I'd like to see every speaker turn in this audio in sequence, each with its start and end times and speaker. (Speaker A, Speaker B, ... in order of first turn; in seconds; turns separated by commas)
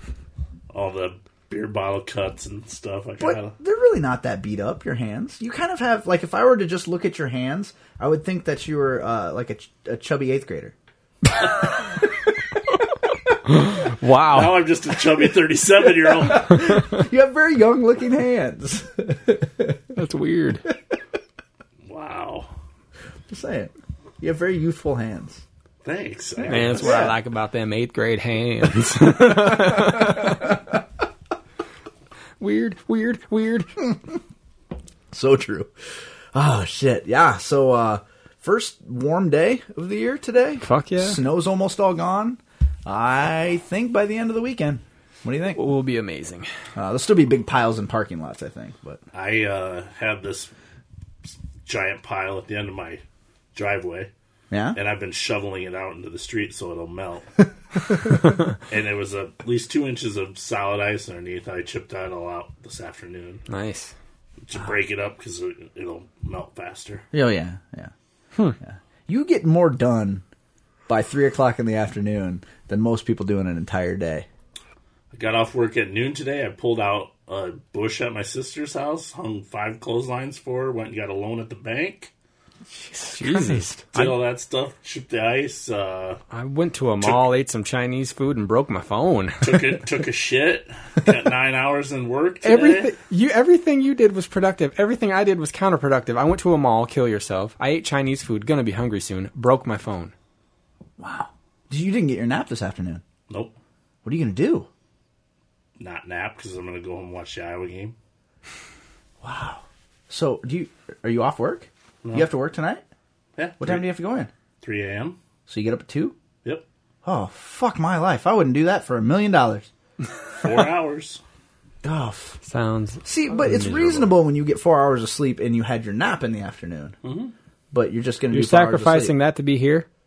Speaker A: 0.7-3.5, Speaker B: 3.2-10.7, Speaker C: 13.5-14.7, Speaker A: 14.3-16.6, Speaker B: 15.9-19.8, Speaker C: 19.9-20.6, Speaker A: 21.9-22.5, Speaker B: 23.3-25.4, Speaker A: 25.8-26.9, Speaker B: 26.4-27.2, Speaker C: 26.5-30.5, Speaker B: 29.2-30.5, Speaker C: 32.4-33.7, Speaker B: 35.1-35.7, Speaker B: 36.3-45.6, Speaker C: 40.6-41.2, Speaker C: 45.5-46.5, Speaker B: 46.8-49.0, Speaker A: 49.1-50.5, Speaker A: 51.6-53.0, Speaker A: 53.5-54.1, Speaker B: 54.5-54.8, Speaker A: 54.8-57.3, Speaker A: 58.7-63.4, Speaker C: 63.5-63.9, Speaker A: 64.4-67.1, Speaker B: 67.1-67.9, Speaker B: 68.6-70.2, Speaker B: 70.9-74.3, Speaker A: 75.1-82.1, Speaker B: 82.7-84.1, Speaker C: 83.1-83.7, Speaker A: 83.9-86.2, Speaker C: 86.3-89.7, Speaker A: 87.0-87.3, Speaker A: 89.4-92.9, Speaker C: 92.4-100.1, Speaker B: 101.0-103.0, Speaker A: 103.3-103.5, Speaker B: 104.0-104.7, Speaker A: 105.8-108.0, Speaker B: 109.2-112.8, Speaker A: 113.4-113.9, Speaker B: 113.6-114.3, Speaker A: 114.6-115.2, Speaker B: 115.5-116.2, Speaker B: 117.0-119.7, Speaker A: 120.4-121.2, Speaker B: 121.8-122.4, Speaker C: 122.5-124.2, Speaker B: 123.0-127.0, Speaker A: 127.0-127.3, Speaker B: 127.7-129.2, Speaker C: 128.3-129.9